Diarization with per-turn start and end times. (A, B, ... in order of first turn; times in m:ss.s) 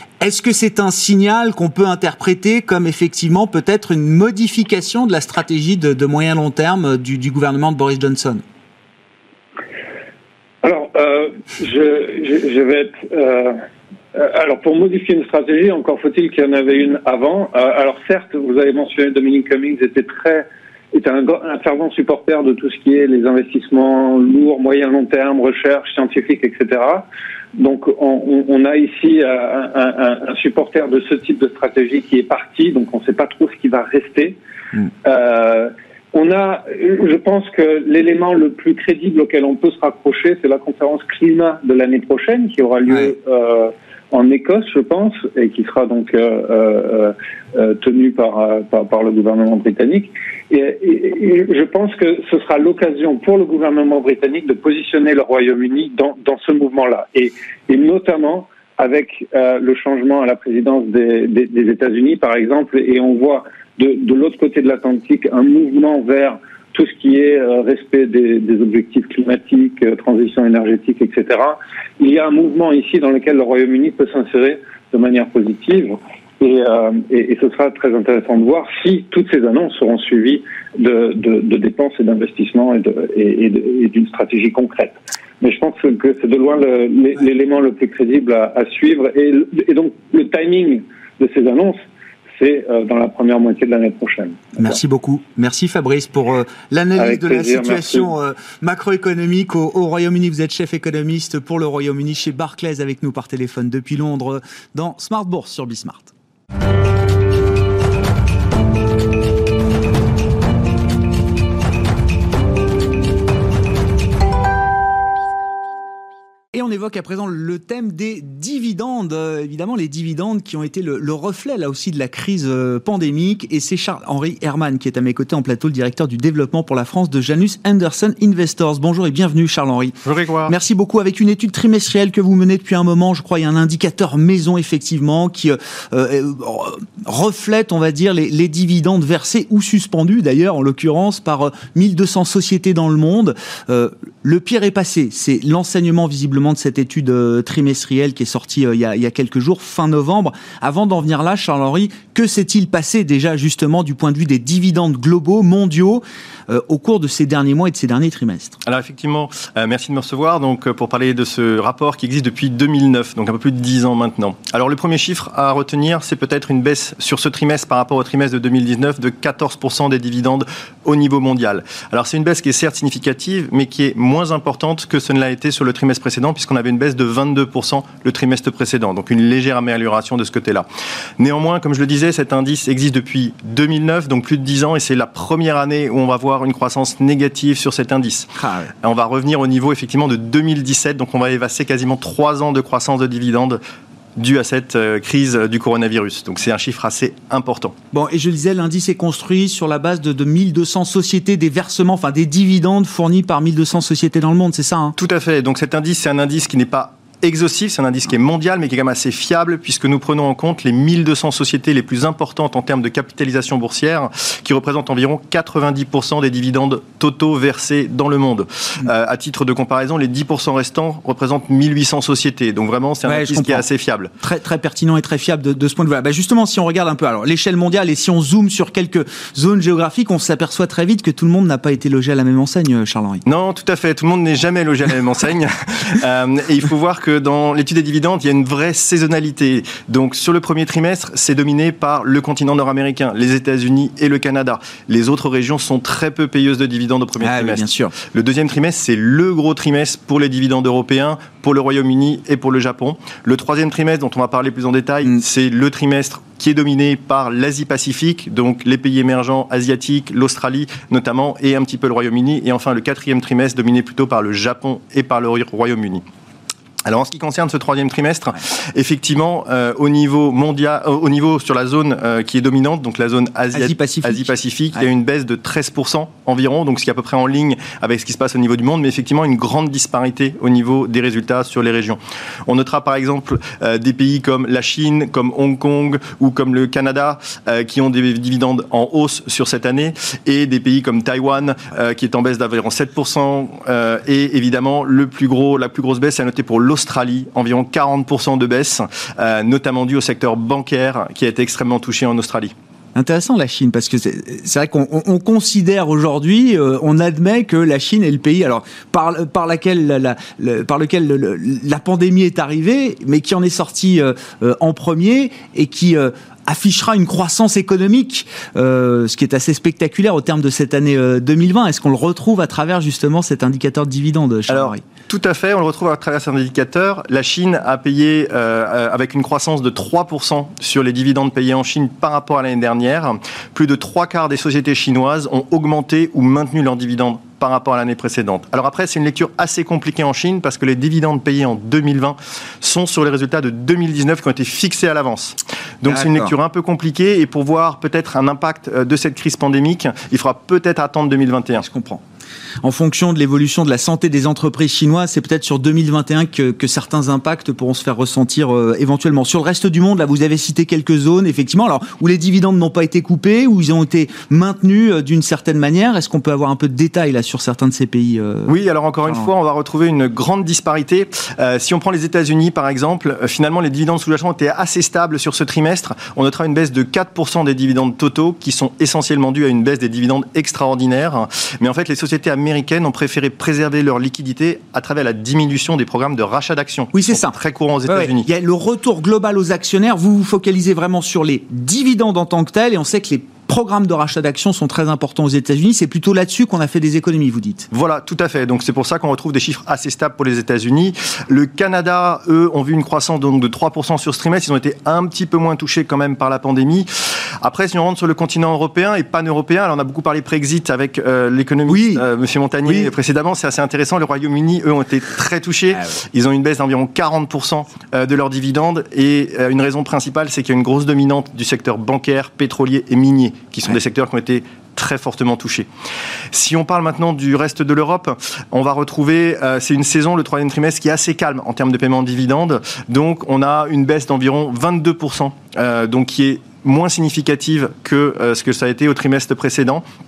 0:00.2-0:08.4 A
0:10.6-0:13.6 B
0:14.1-0:34.4 B
0:35.0-1:31.8 B
1:32.4-1:34.7 B
1:34.6-1:46.1 A
1:37.0-1:38.1 B
1:56.5-2:38.6 A
2:10.0-2:10.5 C
2:38.6-3:00.6 C
3:01.2-3:13.6 C
3:08.4-3:08.7 A
3:14.2-3:17.8 C
3:17.9-3:24.9 A
3:25.0-3:44.1 C
3:43.0-3:43.6 A
3:44.2-3:53.2 A
3:53.2-4:26.0 C
4:07.2-4:07.9 A
4:26.8-5:02.5 C
4:33.5-4:34.8 A
5:02.9-5:24.8 A
5:24.5-5:51.6 C
5:45.8-5:46.3 A
5:51.6-5:52.0 A
5:52.6-6:08.5 A
6:08.5-6:28.3 C
6:26.9-6:27.3 A
6:27.8-6:37.7 A
6:37.7-6:46.9 C
6:47.4-7:05.7 C
6:51.7-6:52.0 A
6:52.6-6:52.9 A
7:06.3-7:19.8 C